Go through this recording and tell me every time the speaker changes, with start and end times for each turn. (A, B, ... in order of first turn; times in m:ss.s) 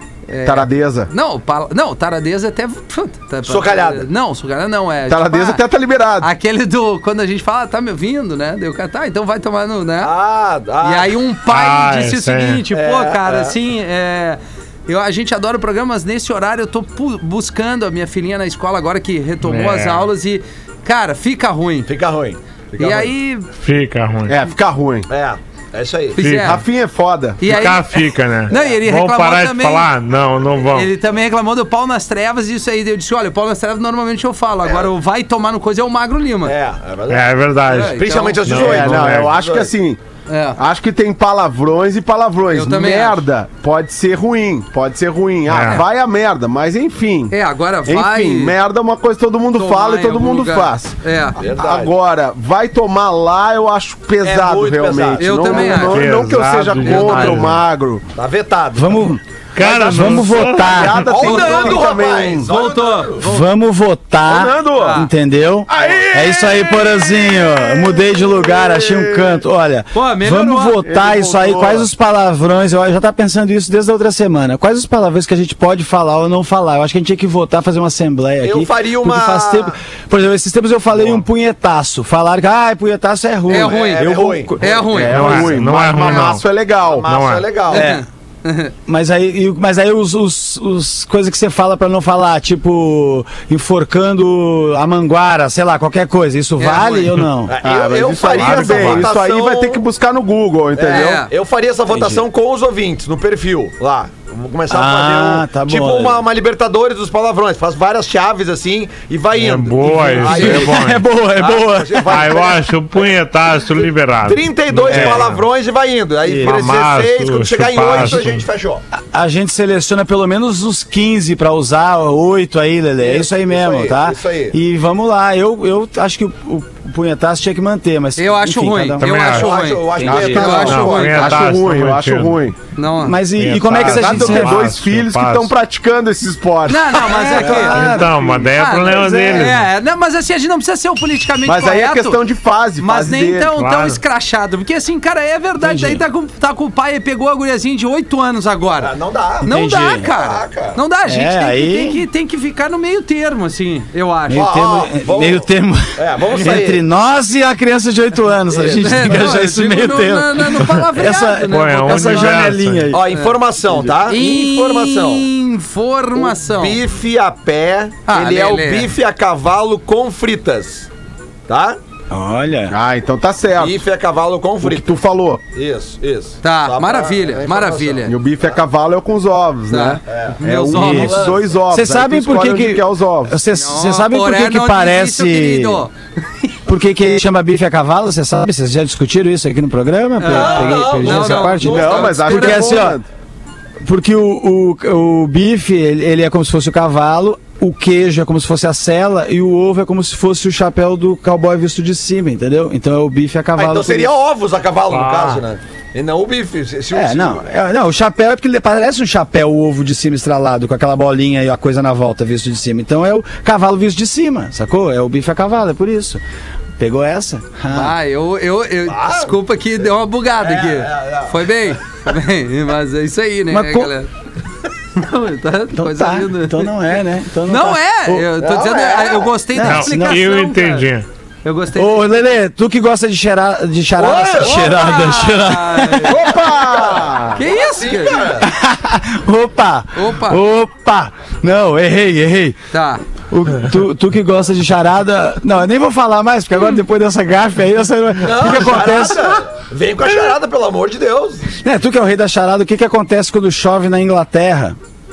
0:00.3-0:05.6 A
0:00.4-0:01.1 B
0:03.4-0:04.0 C
0:05.1-0:06.3 B
0:06.2-0:10.1 A
0:10.0-0:11.2 C
0:10.8-0:21.9 A
0:11.5-0:12.6 D
0:12.7-0:13.5 C
0:19.4-0:20.0 D
0:21.9-0:23.1 C
0:22.8-0:23.5 A
0:23.6-0:24.4 D
0:24.3-0:25.1 B
0:25.1-0:26.2 C
0:26.1-0:26.6 A
0:26.2-0:26.5 D
0:26.3-0:27.4 B
0:27.4-0:29.9 A
0:27.4-0:30.9 D
0:28.5-0:28.8 C
0:30.7-0:36.5 A
0:36.4-0:39.7 C
0:37.1-0:39.3 D
0:37.7-0:38.5 A
0:38.5-0:40.0 B
0:40.3-0:40.6 A
0:40.6-0:47.3 B
0:42.5-0:43.2 A
0:45.5-0:45.8 D
0:47.3-0:48.6 A
0:47.8-0:58.0 B
0:49.5-0:51.4 A
0:51.4-0:51.9 C
0:54.2-0:55.7 C
0:55.2-0:56.1 A
0:55.7-0:57.6 D
0:56.8-0:57.4 A
0:58.1-0:59.1 C
0:58.7-1:01.1 E
0:59.6-1:01.0 D
0:59.6-1:02.5 B
1:01.0-1:03.2 C
1:01.2-1:01.9 A
1:02.5-1:03.5 A
1:03.2-1:24.4 E
1:04.2-1:05.0 B
1:04.7-1:05.1 A
1:05.7-1:06.5 C
1:05.8-1:09.4 B
1:09.9-1:10.8 A
1:10.8-1:11.9 B
1:18.4-1:19.8 C
1:23.5-1:24.0 A
1:23.5-1:24.9 C
1:24.0-1:27.1 B
1:24.6-1:25.6 A
1:25.0-1:26.5 D
1:26.8-1:27.9 C
1:27.0-1:27.5 D
1:27.7-1:28.7 A
1:27.7-1:28.0 E
1:28.8-1:37.6 E
1:36.6-1:37.2 A
1:37.5-1:39.8 C
1:37.6-1:41.2 B
1:40.7-1:52.6 C
1:40.9-1:41.3 A
1:41.9-1:42.2 E
1:44.7-1:46.2 E
1:49.3-1:51.0 D
1:50.1-1:52.3 E
1:52.0-1:55.4 D
1:54.2-1:58.8 C
1:54.8-1:55.3 E
1:56.2-1:56.6 E
1:56.4-1:58.4 D
1:58.9-2:09.3 E
2:03.0-2:04.5 C
2:08.2-2:11.4 A
2:09.0-2:09.5 D
2:09.2-2:11.4 C
2:10.0-2:10.4 E
2:10.0-2:12.5 B
2:10.1-2:12.4 D
2:12.8-2:13.2 A
2:13.0-2:14.6 E
2:13.4-2:15.5 D
2:13.7-2:18.0 B
2:16.7-2:17.9 A
2:17.1-2:18.4 E
2:17.7-2:19.6 D
2:18.5-2:22.2 A
2:18.9-2:19.3 E
2:21.4-2:23.5 B
2:22.8-2:28.9 A
2:23.6-2:24.0 D
2:25.6-2:26.0 E
2:28.8-2:29.5 C
2:29.4-2:34.4 A
2:29.4-2:30.0 E
2:30.0-2:30.8 C
2:31.1-2:32.0 E
2:34.3-2:43.0 E
2:34.3-2:36.8 C
2:38.5-2:38.8 C
2:38.8-2:42.5 A
2:41.5-2:42.9 D
2:42.9-2:45.2 C
2:43.1-2:43.4 A
2:44.1-2:46.8 A
2:46.2-2:50.9 C
2:48.0-2:48.9 A
2:51.5-2:51.8 C
2:52.1-2:52.8 E
2:52.7-2:53.8 B
2:53.6-2:55.0 C
2:54.6-2:55.4 B
2:55.5-2:58.5 C
2:56.4-2:58.1 A
2:58.0-3:03.4 B
2:59.7-3:01.4 A
3:00.1-3:01.4 C
3:00.7-3:05.8 E
3:03.5-3:06.5 A
3:06.7-3:13.0 E
3:10.2-3:12.9 A
3:10.2-3:12.2 C
3:11.6-3:13.0 B
3:13.8-3:24.1 E
3:23.6-3:27.5 C
3:24.9-3:25.4 D
3:26.9-3:36.2 E
3:36.8-3:37.9 E
3:37.7-3:44.1 A
3:38.9-3:39.3 C
3:40.4-3:41.5 C
3:43.5-3:43.9 E
3:45.0-3:46.7 A
3:45.7-3:48.3 E
3:47.5-3:50.9 A
3:48.4-3:49.3 C
3:49.5-3:50.2 E
3:49.6-3:51.0 D
3:51.4-3:52.1 A
3:51.7-3:56.3 E
3:54.0-3:54.8 C
3:54.4-3:56.2 A
3:56.1-3:57.4 B
3:56.7-3:58.5 C
3:57.3-3:58.3 A
3:58.4-4:02.6 E
4:00.0-4:00.4 A
4:02.7-4:03.0 A
4:03.3-4:09.4 E
4:08.2-4:11.5 C
4:11.6-4:14.8 E